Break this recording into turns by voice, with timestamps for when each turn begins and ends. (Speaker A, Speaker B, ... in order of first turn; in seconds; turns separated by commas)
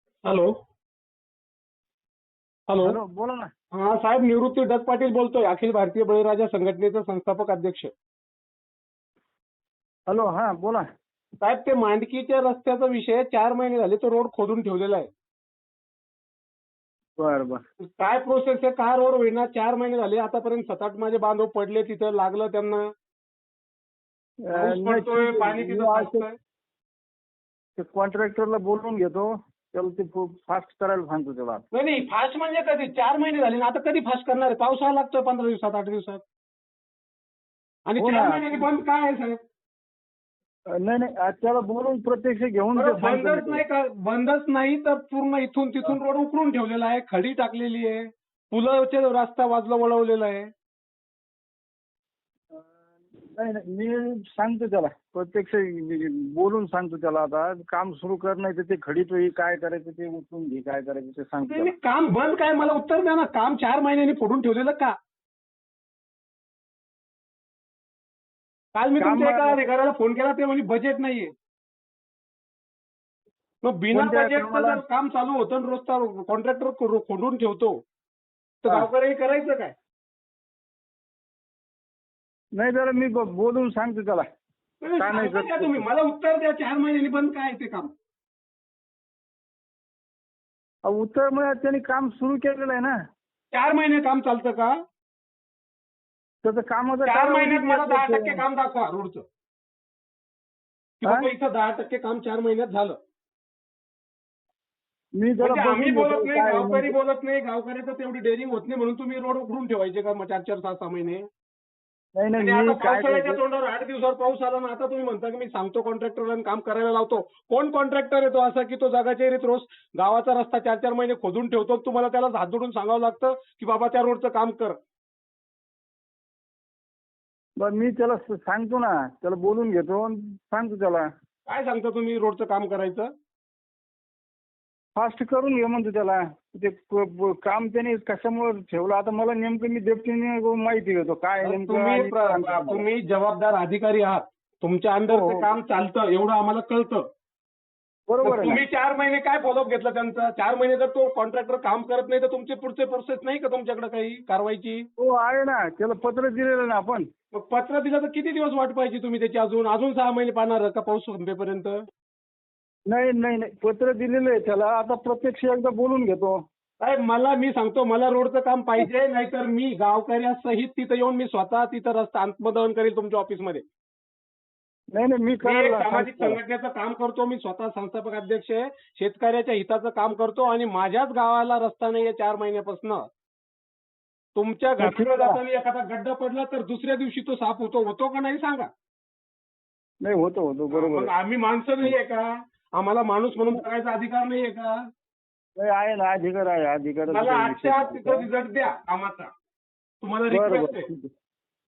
Speaker A: 0.2-0.5, Speaker A: 2.7-3.0, Speaker B: 2.8-3.5, Speaker A: 3.7-7.9, Speaker B: 10.1-10.9, Speaker A: 11.4-15.1, Speaker B: 17.2-17.6, Speaker A: 18.0-22.9, Speaker B: 24.4-26.3, Speaker A: 24.5-26.4, Speaker B: 27.8-31.6, Speaker A: 31.7-36.2, Speaker A: 37.9-39.4, Speaker B: 38.0-38.6, Speaker B: 40.8-43.6, Speaker A: 42.8-50.5, Speaker B: 53.3-61.7, Speaker A: 61.5-64.9, Speaker A: 68.8-71.3, Speaker B: 69.0-69.6, Speaker A: 73.6-77.8, Speaker B: 73.9-74.8, Speaker A: 78.6-79.8, Speaker B: 82.6-84.3, Speaker A: 84.8-87.9, Speaker B: 85.0-85.9, Speaker B: 90.9-93.0, Speaker A: 93.5-94.8, Speaker B: 96.4-98.4, Speaker A: 97.1-99.2, Speaker A: 101.0-103.0, Speaker B: 105.2-107.0, Speaker A: 105.4-111.3, Speaker B: 112.2-113.4, Speaker A: 112.4-124.8, Speaker B: 127.6-131.1, Speaker A: 131.5-133.1, Speaker B: 135.0-142.8, Speaker A: 141.4-147.1, Speaker B: 145.1-145.5, Speaker B: 148.1-148.6, Speaker A: 148.2-154.9, Speaker B: 155.0-157.1, Speaker A: 157.3-161.8, Speaker B: 162.9-166.4, Speaker A: 166.8-173.7, Speaker B: 175.0-176.4, Speaker A: 175.4-183.1, Speaker A: 184.3-188.7, Speaker B: 184.8-185.4, Speaker B: 190.0-191.1, Speaker A: 190.7-194.8, Speaker B: 195.6-198.3, Speaker A: 197.1-199.3, Speaker A: 200.0-200.9, Speaker B: 200.3-201.1